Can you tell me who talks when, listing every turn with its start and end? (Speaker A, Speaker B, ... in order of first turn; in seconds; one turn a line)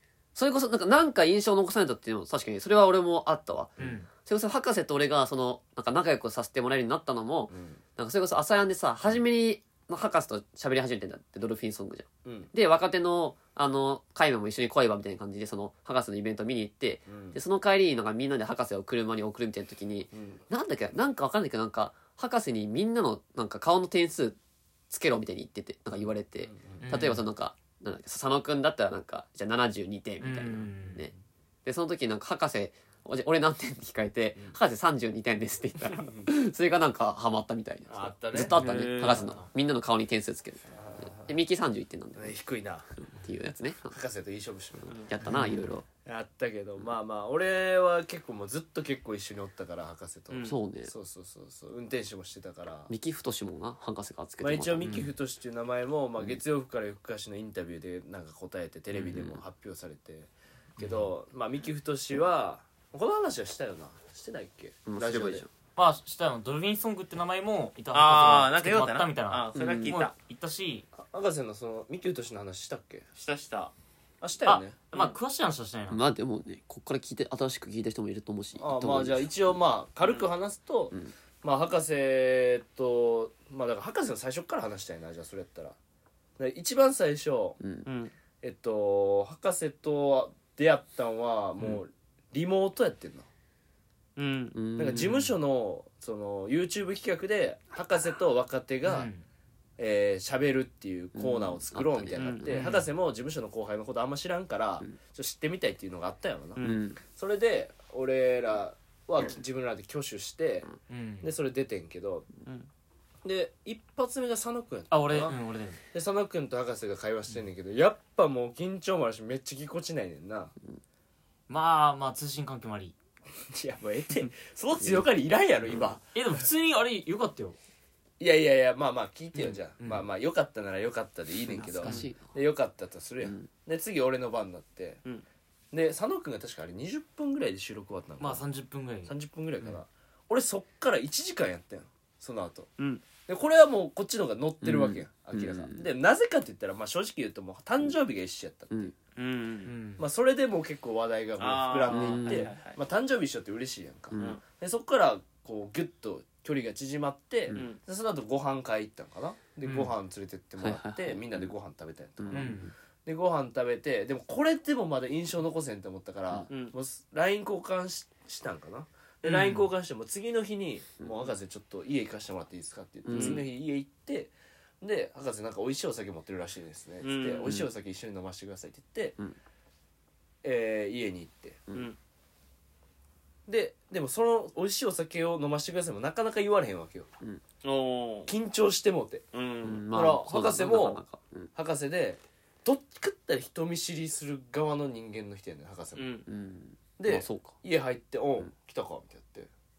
Speaker A: 0.3-24.4
Speaker B: 3.8-4.1
Speaker C: 7.5-7.8
Speaker C: 12.2-12.5
Speaker C: 17.1-17.4
Speaker C: 20.1-20.4
Speaker A: 24.9-31.1
Speaker C: 26.4-27.1
Speaker B: 26.8-27.2
Speaker B: 30.2-31.1
Speaker A: 31.6-42.4
Speaker C: 36.0-36.3
Speaker C: 37.9-38.6
Speaker D: 38.5-39.4
Speaker B: 38.5-39.4
Speaker C: 40.7-41.3
Speaker C: 42.1-42.9
Speaker A: 43.1-44.0
Speaker C: 43.9-45.0
Speaker A: 45.1-45.8
Speaker B: 45.2-45.7
Speaker C: 46.0-52.9
Speaker D: 50.3-50.5
Speaker A: 50.4-50.9
Speaker A: 52.9-55.0
Speaker C: 54.4-65.5
Speaker B: 54.8-55.1
Speaker A: 58.9-59.4
Speaker B: 60.8-61.1
Speaker A: 64.8-65.5
Speaker B: 65.8-70.9
Speaker D: 67.9-70.1
Speaker A: 69.5-70.0
Speaker C: 71.0-73.0
Speaker D: 73.2-73.7
Speaker C: 74.2-74.8
Speaker B: 74.5-76.0
Speaker A: 75.9-79.3
Speaker C: 78.6-85.8
Speaker D: 80.0-80.3
Speaker C: 86.4-87.6
Speaker A: 87.6-87.9
Speaker D: 87.8-88.1
Speaker C: 88.4-93.3
Speaker D: 94.2-94.6
Speaker A: 94.5-95.3
Speaker C: 94.8-99.1
Speaker B: 98.8-99.2
Speaker C: 99.8-112.3
Speaker A: 101.1-102.5
Speaker D: 102.2-102.5
Speaker B: 102.5-102.9
Speaker A: 106.6-107.0
Speaker B: 110.9-111.3
Speaker C: 113.2-115.4
Speaker B: 114.9-115.8
Speaker C: 115.9-120.5
Speaker B: 121.5-122.9
Speaker C: 123.5-126.1
Speaker B: 126.1-127.6
Speaker C: 128.2-135.0
Speaker B: 129.8-130.0
Speaker A: 131.5-132.3
Speaker A: 133.2-133.5
Speaker C: 135.7-138.4
Speaker B: 138.2-139.8
Speaker C: 139.1-142.7
Speaker D: 142.8-143.0
Speaker C: 143.2-148.9
Speaker A: 144.6-145.9
Speaker D: 149.2-149.7
Speaker B: 149.6-150.0
Speaker C: 150.0-179.2
Speaker D: 151.4-152.8
Speaker A: 151.9-152.5
Speaker A: 154.1-154.4
Speaker D: 154.2-154.4
Speaker D: 157.5-157.8
Speaker B: 159.6-159.9
Speaker A: 160.6-161.5
Speaker A: 162.2-162.7
Speaker B: 162.3-162.7
Speaker B: 169.2-169.7
Speaker A: 173.0-173.4
Speaker D: 173.1-173.4
Speaker D: 177.0-177.6
Speaker C: 180.4-181.6
Speaker C: 183.5-187.1
Speaker D: 187.6-188.3
Speaker C: 188.3-189.2
Speaker D: 189.3-189.8
Speaker A: 189.6-191.5
Speaker C: 189.9-191.0
Speaker C: 191.5-196.1
Speaker D: 195.9-196.3
Speaker A: 196.3-197.6
Speaker C: 197.0-199.5